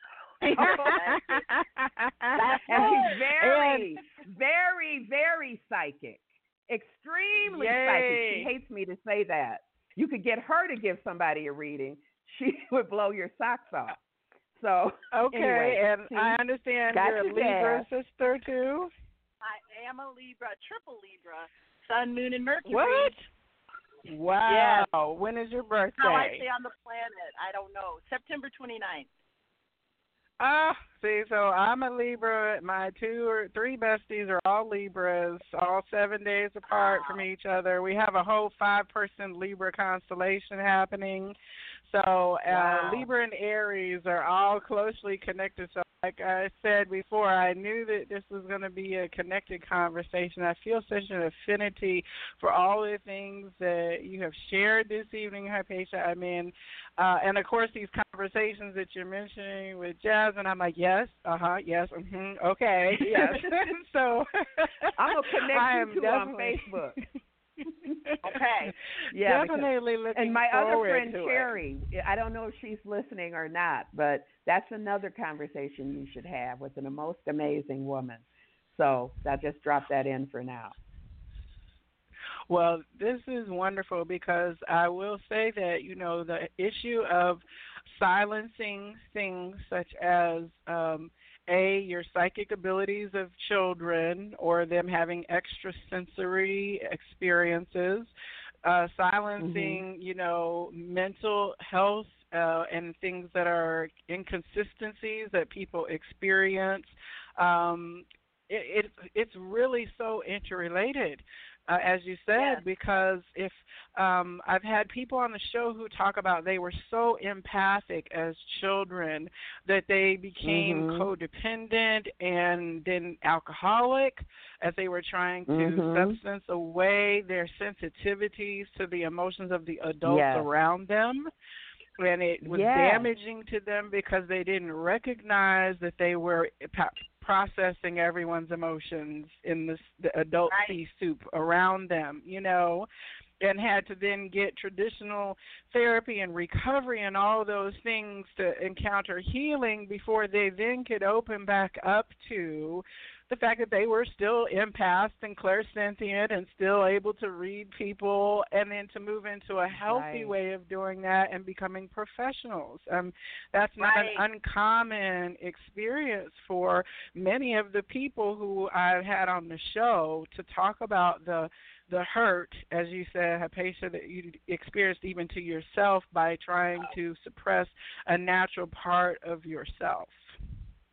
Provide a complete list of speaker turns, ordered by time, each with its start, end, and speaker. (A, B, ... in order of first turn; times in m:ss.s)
0:00.4-0:01.4 A
0:00.4-0:04.0 B
0:02.3-0:03.0 C
0:02.7-0:14.0 A
0:07.4-0:08.5 B
0:14.6-0:16.4 A
0:15.1-0:18.9 B
0:16.9-0:17.9 A
0:19.4-0:23.2 C
0:22.7-0:23.3 B
0:24.1-0:26.4 B
0:24.5-0:24.9 C
0:26.0-0:29.1 C
0:30.4-1:07.0 B
0:42.5-0:43.1 A
1:03.0-1:03.7 A
1:05.0-1:07.0 A
1:07.8-1:08.4 B
1:08.2-1:08.7 C
1:09.1-1:20.8 A
1:09.2-1:11.6 B
1:22.5-1:38.1 B
1:38.6-2:11.3 B
1:39.4-1:39.8 A
1:52.4-1:52.6 C
2:00.4-2:01.1 A
2:05.5-2:06.2 A
2:10.1-2:10.5 A
2:12.0-2:22.9 B
2:12.4-2:13.1 A
2:20.5-2:20.8 C
2:23.4-3:00.4 B
2:39.7-2:40.3 A
2:43.8-2:44.2 C